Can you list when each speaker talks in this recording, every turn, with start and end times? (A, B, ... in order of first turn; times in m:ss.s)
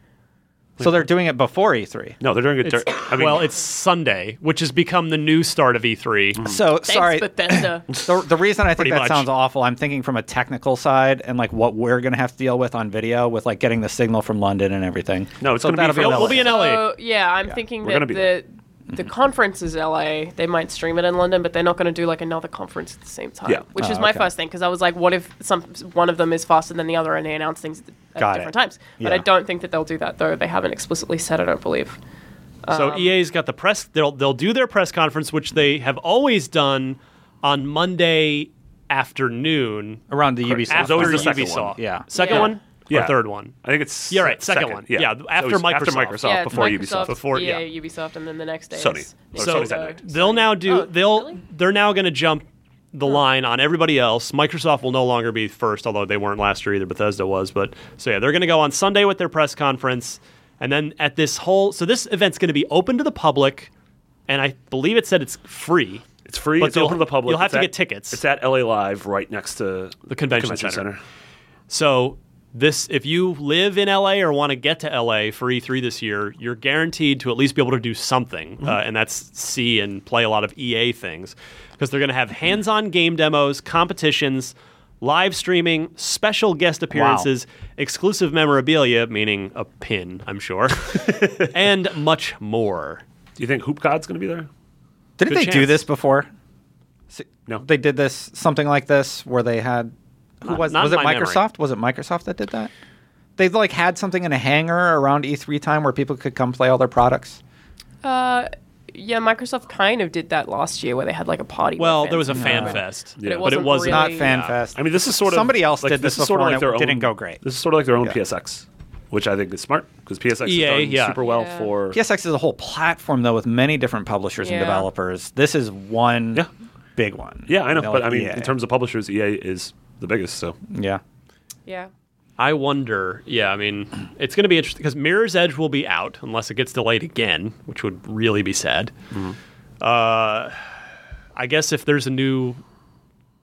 0:00.8-0:01.1 A
0:00.8-0:02.2 B
0:02.2-0:03.5 A
0:02.6-0:06.4 C
0:06.4-0:06.6 A
0:06.4-0:16.6 B
0:06.8-0:07.9 D
0:08.7-0:09.3 C
0:15.4-0:16.6 A
0:15.9-0:16.9 C
0:16.4-0:32.0 D
0:17.8-0:18.3 A
0:23.8-0:24.3 B
0:28.2-0:29.2 B
0:32.6-0:33.1 D
0:32.7-0:40.0 C
0:40.1-0:42.1 B
0:40.5-0:47.2 A
0:40.6-0:43.6 C
0:42.1-0:42.6 D
0:44.1-0:47.6 C
0:46.2-0:51.4 D
0:48.7-0:50.0 A
0:49.3-1:03.7 C
1:04.3-1:06.0 C
1:06.2-1:11.0 A
1:06.6-1:08.2 C
1:10.1-1:10.9 C
1:11.7-1:33.0 C
1:26.9-1:27.3 B
1:33.4-1:34.5 A
1:35.2-1:36.3 B
1:35.2-1:35.8 C
1:37.1-1:42.7 B
1:40.4-1:41.4 C
1:43.4-1:47.4 B
1:48.0-1:54.3 D
1:51.8-1:54.6 C
1:52.3-1:52.8 B
1:53.2-1:53.7 A
1:53.8-1:57.4 B
1:54.7-2:02.0 A
2:00.4-2:01.2 C
2:01.2-2:01.7 D
2:01.9-2:08.5 B
2:04.4-2:04.9 D
2:07.5-2:10.6 A
2:10.7-2:11.0 B
2:12.4-2:18.9 C
2:19.8-2:20.7 C
2:21.4-2:22.6 C